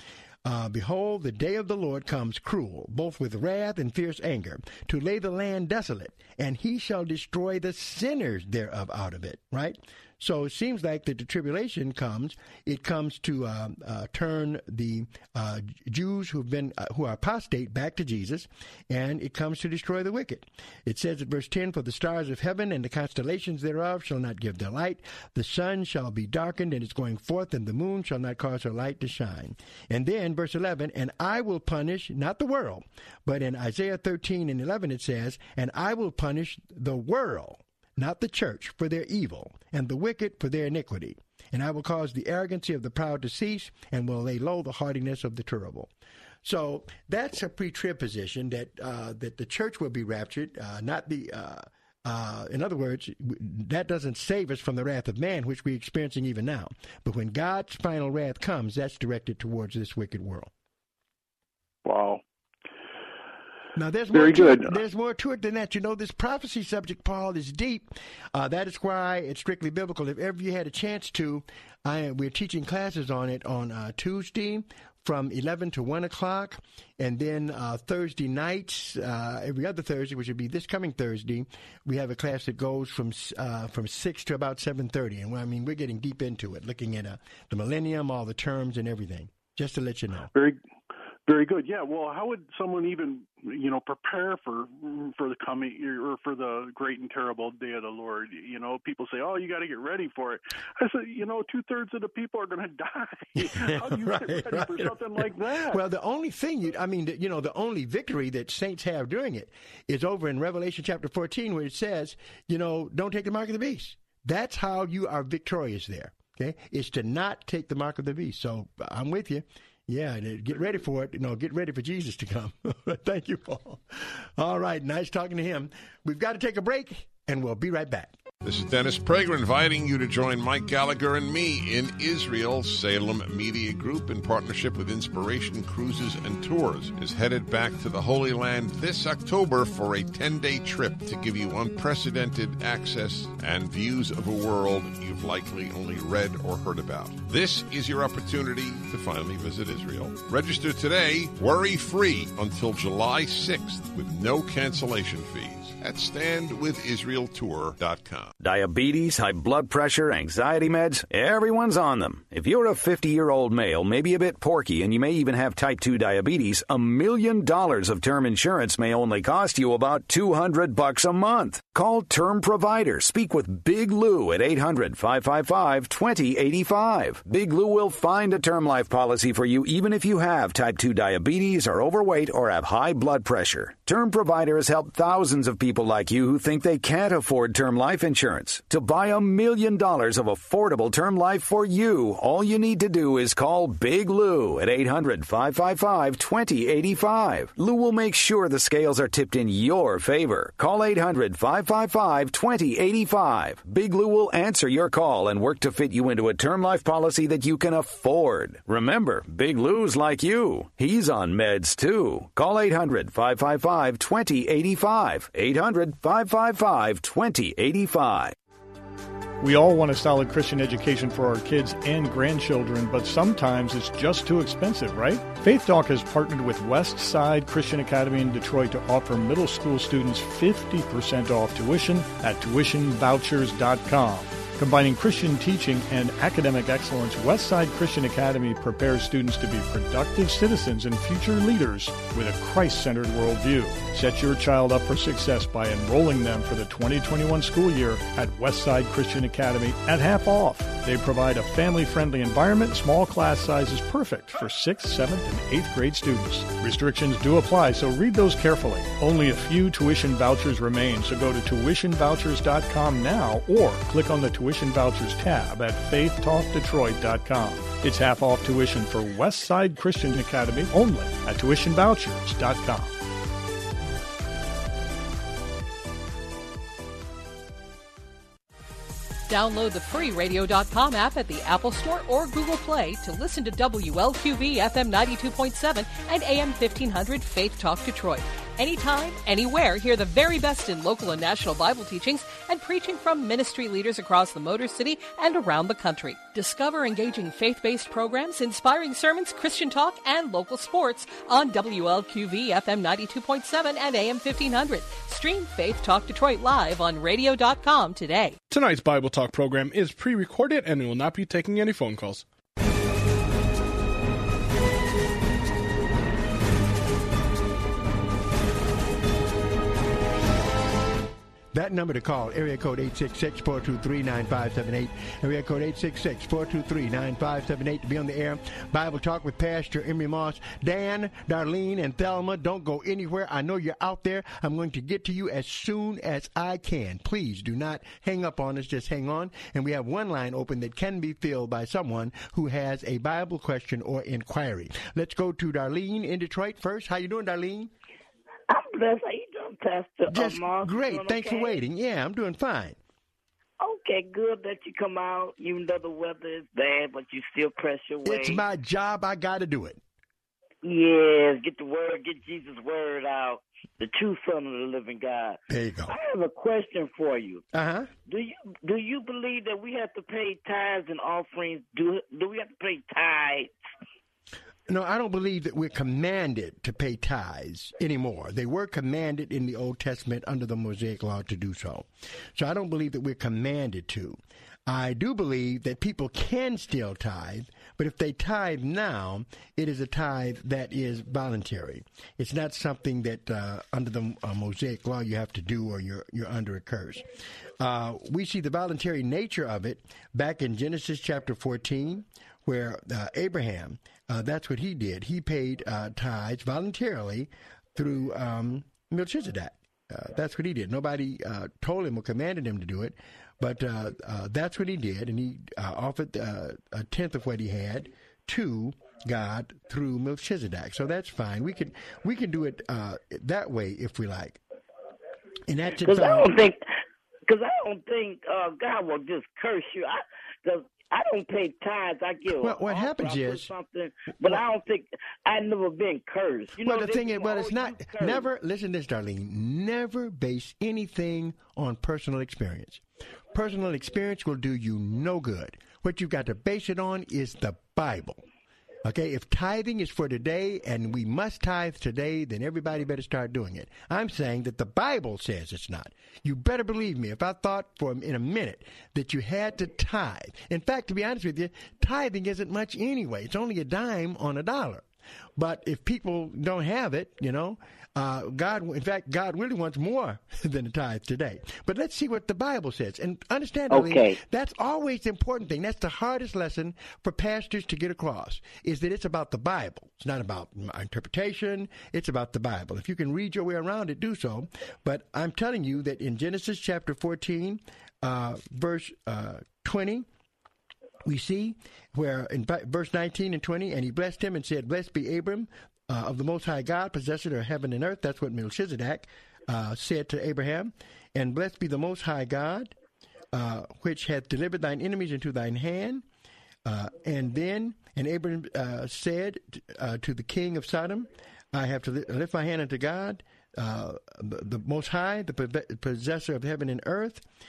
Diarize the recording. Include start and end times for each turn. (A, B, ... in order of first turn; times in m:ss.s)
0:00.4-0:45.9 A
0:46.4-1:00.5 A
1:01.8-1:02.2 B
1:03.8-1:30.3 A
1:04.1-1:04.8 B
1:30.3-1:30.6 B
1:31.3-1:45.8 B
1:43.6-1:45.0 A
1:45.7-2:08.2 A
2:08.4-2:38.3 C
2:38.4-3:38.3 D
3:39.4-4:33.0 E
4:39.3-5:08.4 F
5:08.5-5:12.2 G
5:21.5-5:47.7 A
5:48.5-5:51.6 H
5:50.1-5:52.8 A
5:53.6-5:58.4 H
5:58.0-5:59.8 A
6:00.6-6:07.4 H
6:05.5-6:06.0 A
6:07.5-6:07.9 A
6:08.0-6:13.5 H
6:14.7-6:37.0 A
6:37.6-7:04.4 A
7:05.5-7:06.4 A
7:05.7-7:06.6 H
7:07.3-7:18.3 H
7:12.3-7:13.5 A
7:14.2-7:14.5 A
7:16.6-7:28.2 A
7:28.8-8:10.1 A
7:53.7-7:54.2 H
8:11.1-8:22.7 A
8:23.3-8:26.0 A
8:26.6-8:37.2 A